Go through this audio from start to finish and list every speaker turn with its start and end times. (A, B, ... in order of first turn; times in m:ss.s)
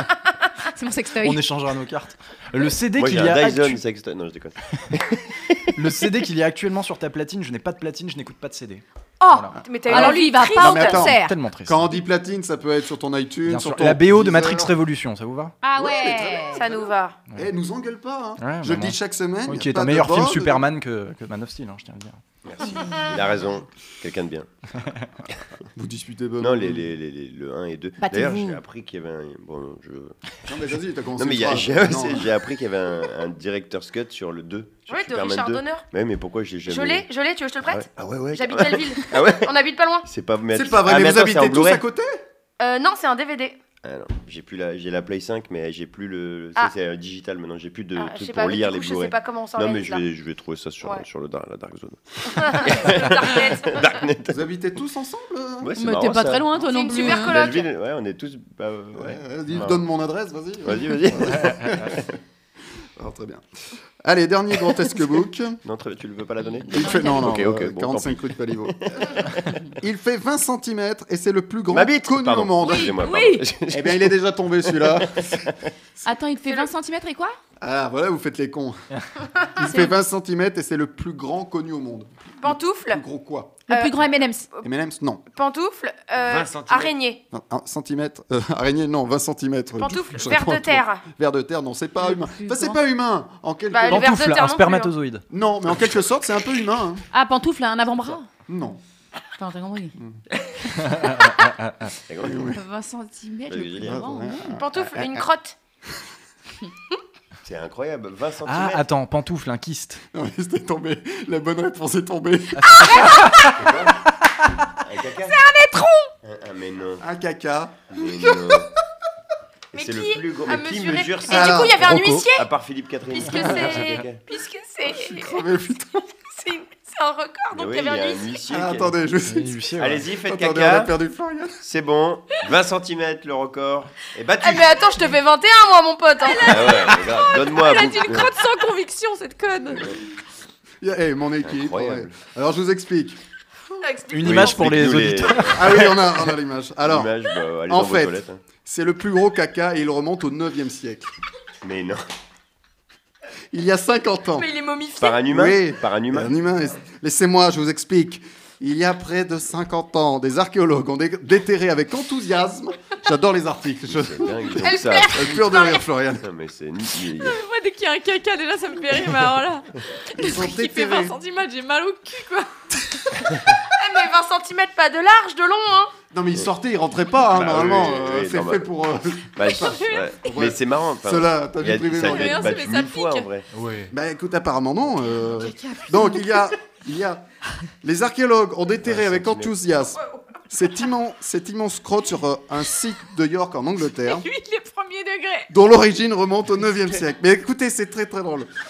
0:00.7-0:01.4 A
0:01.2-0:03.8 B
0:03.0-0:05.7 C
0:05.8-0:10.1 B
0:09.2-0:11.3 A
0:09.7-0:11.0 D
0:09.9-0:14.8 E
0:10.9-0:12.0 B
0:13.5-0:15.6 B
0:15.6-0:16.6 A
0:15.8-0:20.7 E
0:16.5-0:17.2 D
0:18.4-0:22.2 B
0:22.4-0:24.5 C
0:25.7-0:26.9 E
0:26.4-0:30.2 C
0:28.0-0:28.6 A
0:30.4-0:32.3 E
0:31.2-0:37.1 C
0:34.9-0:35.9 D
0:36.7-0:40.1 D
0:37.6-0:39.5 C
0:40.0-0:41.8 C
0:40.5-0:42.2 E
0:42.6-0:43.6 D
0:43.8-0:54.4 C
0:48.0-0:50.0 D
0:52.4-0:54.0 D
0:54.3-0:55.7 E
0:55.6-0:59.8 C
0:55.8-0:57.4 A
0:56.6-0:57.7 D
0:59.0-1:02.0 E
1:00.6-1:02.1 C
1:03.0-1:03.4 E
1:04.0-1:05.6 E
1:05.6-1:09.7 C
1:06.7-1:07.3 A
1:06.7-1:09.1 E
1:09.7-1:13.0 E
1:11.7-1:15.6 C
1:12.6-1:13.5 A
1:13.7-1:15.5 E
1:16.0-1:17.4 A
1:17.6-1:18.8 E
1:19.6-1:23.6 E
1:22.4-1:23.0 D
1:23.7-1:24.5 A
1:23.7-1:23.9 D
1:24.6-1:25.2 E
1:25.3-1:27.2 D
1:26.2-1:26.9 C
1:27.3-1:34.1 E
1:29.8-1:31.0 D
1:32.0-1:32.8 A
1:33.7-1:34.9 D
1:33.9-1:35.2 B
1:35.3-1:37.0 E
1:37.1-1:38.3 A
1:38.5-1:38.8 E
1:39.4-1:40.0 A
1:40.8-1:41.9 B
1:42.1-1:42.6 C
1:42.2-1:42.6 E
1:42.5-1:44.5 A
1:43.5-1:44.1 C
1:43.8-1:45.2 E
1:44.6-1:45.6 D
1:47.4-1:48.8 C
1:48.4-1:50.0 B
1:50.1-1:53.2 E
1:52.6-1:53.6 B
1:53.5-1:54.1 C
1:54.7-1:55.4 C
1:55.3-1:56.1 A
1:56.2-1:57.0 C
1:57.0-1:58.7 E
1:57.9-1:58.7 C
1:59.7-2:04.2 C
1:59.7-2:02.5 D
2:01.3-2:02.1 E
2:01.9-2:02.2 B
2:03.1-2:05.4 D
2:04.9-2:06.1 E
2:06.3-2:08.4 D
2:07.5-2:09.0 C
2:08.5-2:09.6 E
2:09.3-2:10.0 B
2:09.8-2:10.9 C
2:10.2-2:11.6 E
2:11.6-2:14.9 C
2:14.4-2:17.0 D
2:16.4-2:19.9 A
2:16.4-2:18.3 C
2:20.8-2:23.2 E
2:21.4-2:22.1 C
2:23.8-2:24.5 D
2:24.1-2:25.7 B
2:24.2-2:28.4 C
2:25.5-2:27.1 E
2:27.7-2:31.1 E
2:31.6-2:32.0 C
2:33.5-2:34.5 E
2:34.4-2:35.2 D
2:35.0-2:36.3 C
2:35.2-2:44.3 E
2:43.9-2:45.5 C
2:44.6-2:45.8 D
2:45.1-2:46.3 E
2:46.2-2:47.4 C
2:47.2-2:52.5 A
2:50.2-2:51.2 E
2:53.6-2:55.9 D
2:56.1-3:02.7 E
2:57.3-2:58.6 C
2:59.4-3:03.5 C
2:59.6-3:00.0 A
3:02.0-3:03.3 A
3:03.5-3:03.9 B
3:03.9-3:07.2 E
3:05.2-3:06.4 A
3:07.8-3:14.2 E
3:08.8-3:09.6 C
3:14.0-3:15.5 A
3:15.5-3:18.5 E